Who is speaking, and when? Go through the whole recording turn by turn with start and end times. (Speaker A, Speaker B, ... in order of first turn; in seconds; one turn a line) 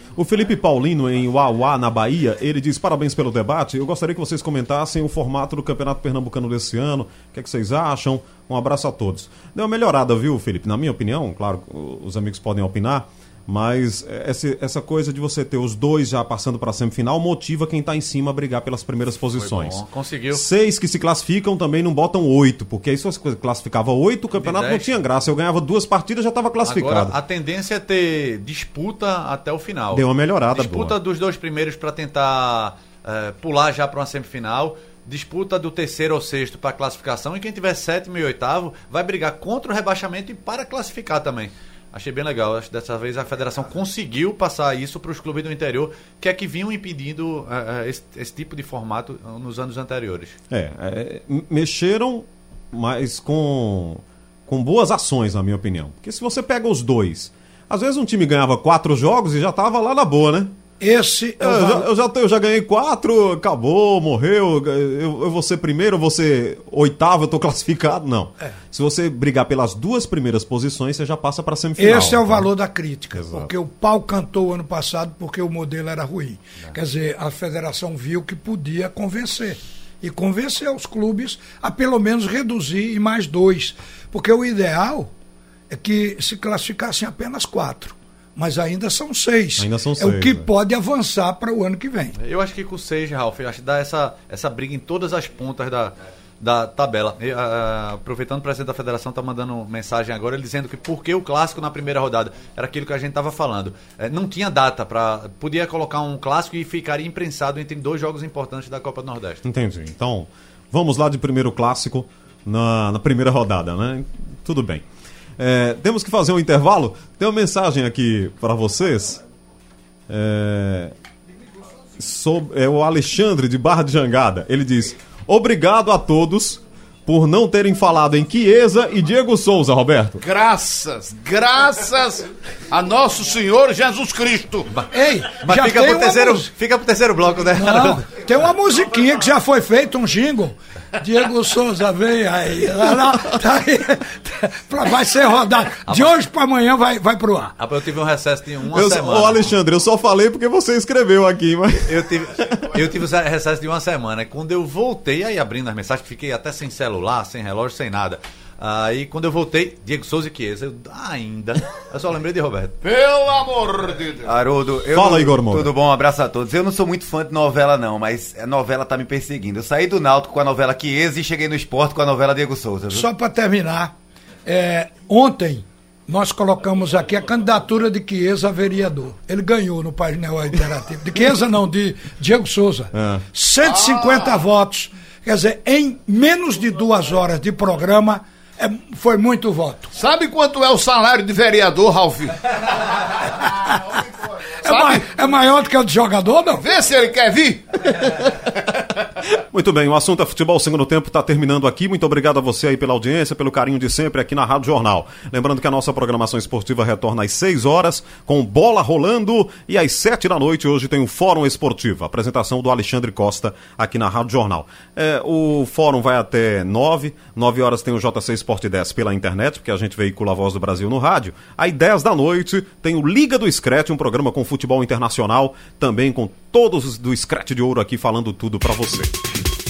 Speaker A: 0.1-27.1
Speaker B: 19.4-20.4
Speaker B: 24.4-25.0
Speaker B: 26.6-50.4
Speaker A: 29.9-30.9
Speaker A: 50.5-60.5
Speaker C: 60.8-61.9
Speaker A: 61.4-72.5
Speaker C: 71.8-85.1
Speaker A: 73.1-73.5
Speaker C: 85.7-92.2
Speaker A: 89.6-90.5
Speaker B: 92.2-109.4
Speaker A: 109.4-114.8
Speaker A: 115.4-119.2
Speaker A: 120.1-120.9
Speaker A: 122.0-130.2
Speaker D: 130.2-134.7
Speaker B: 134.8-138.0
Speaker C: 134.9-136.5
Speaker C: 137.5-147.5
Speaker B: 145.9-146.2
Speaker B: 147.6-149.4
Speaker A: 148.7-152.1
Speaker B: 151.8-162.8
Speaker D: 162.8-164.3
Speaker E: 164.2-173.1
Speaker A: 164.9-165.7
Speaker C: 172.9-173.9
Speaker C: 174.4-189.9
Speaker A: 182.9-183.2
Speaker D: 183.6-184.3
Speaker D: 189.9-192.5
Speaker D: 193.4-195.1
Speaker C: 194.6-196.7
Speaker D: 196.6-198.3
Speaker A: 199.3-229.1